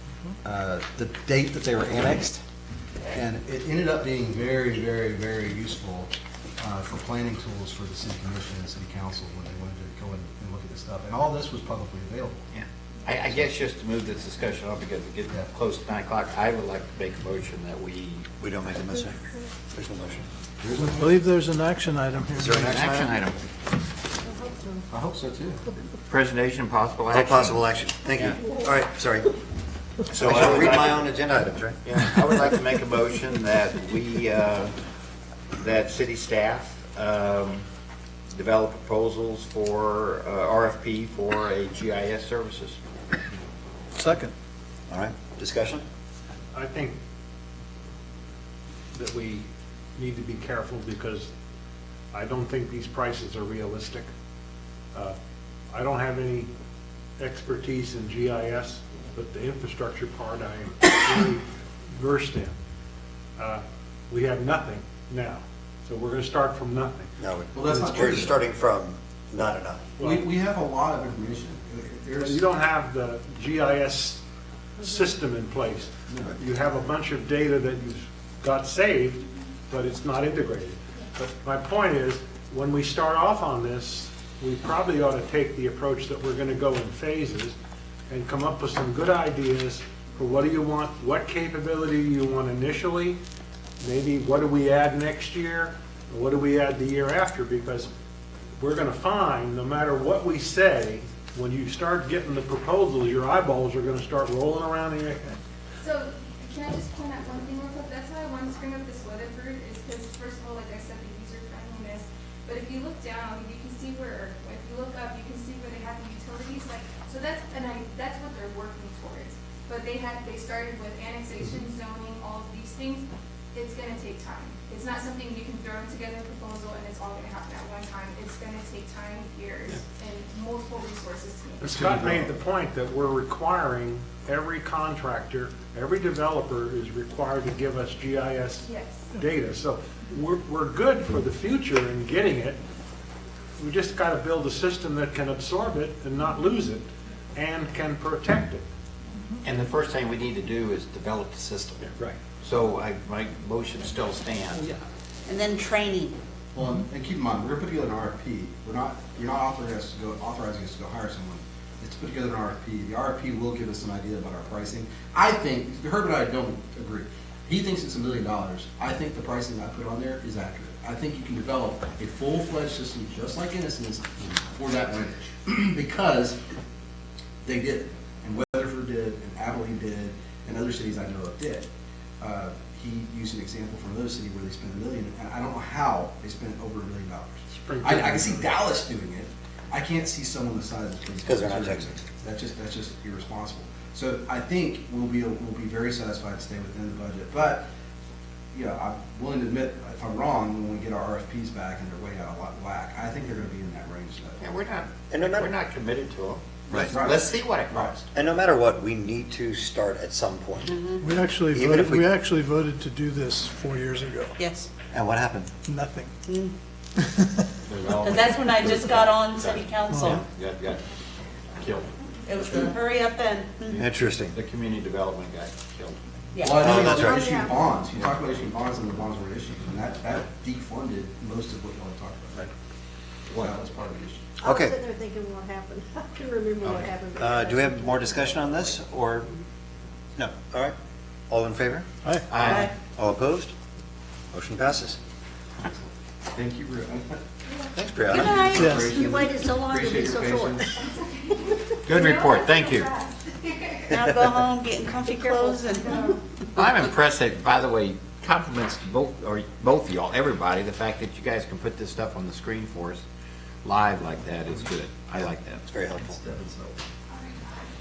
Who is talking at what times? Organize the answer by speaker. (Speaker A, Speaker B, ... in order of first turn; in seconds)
Speaker A: 0.5-2.4, 3.1-12.5, 20.6-21.0, 24.9-25.6, 67.5-68.4, 70.0-72.4, 76.1-76.4, 156.6-176.4, 177.4-181.7, 182.2-197.7, 198.5-204.5, 206.7-207.9, 226.4-232.5, 233.3-234.2, 246.3-247.2, 248.1-250.8, 266.0-266.8
Speaker B: 12.5-18.5, 22.6-23.4, 26.1-27.6, 30.1-31.1, 31.8-34.7, 35.6-37.6, 38.3-42.8, 149.4-154.7, 204.4-208.1, 217.7-220.8, 221.6-221.9, 223.7-226.0, 242.3-242.7, 251.8-252.9, 256.6-263.0, 263.6-265.6
Speaker C: 18.4-20.3, 22.4-23.2, 27.1-29.3, 30.1-31.9, 44.9-45.8, 67.2-69.8, 191.2-191.9, 205.1-205.6, 208.1-210.8, 211.5-212.1, 214.9-215.5, 223.8-224.4, 226.6-227.2, 234.4-234.8, 237.2-239.3, 240.2-240.8, 241.3-243.5, 244.3-245.0, 247.8-248.6, 265.7-266.2
Speaker D: 20.8-22.7, 44.0-44.3, 211.0-214.3, 215.7-216.1, 219.9-220.2, 242.0-242.4, 248.5-249.0
Speaker E: 24.4-24.8, 226.8-227.7, 234.4-238.6, 248.2-250.8, 255.8-256.2
Speaker F: 46.5-47.0, 48.9-51.3, 52.1-54.1, 55.7-56.5, 57.2-61.4, 62.0-62.5, 63.4-67.1, 70.0-70.3, 72.2-74.2, 74.8-87.6, 88.1-93.2, 93.8-97.9, 98.6-105.4, 131.6-138.7, 139.2-142.6, 143.6-148.7, 187.5-188.5
Speaker G: 105.8-131.8, 138.6-139.1, 250.8-254.0, 255.7-256.1, 267.1-267.7
Speaker H: 155.3-156.2, 210.6-211.0, 214.4-214.7, 216.3-216.5, 217.9-220.2, 222.3-223.8, 226.3-226.8, 242.4-242.7, 253.9-256.0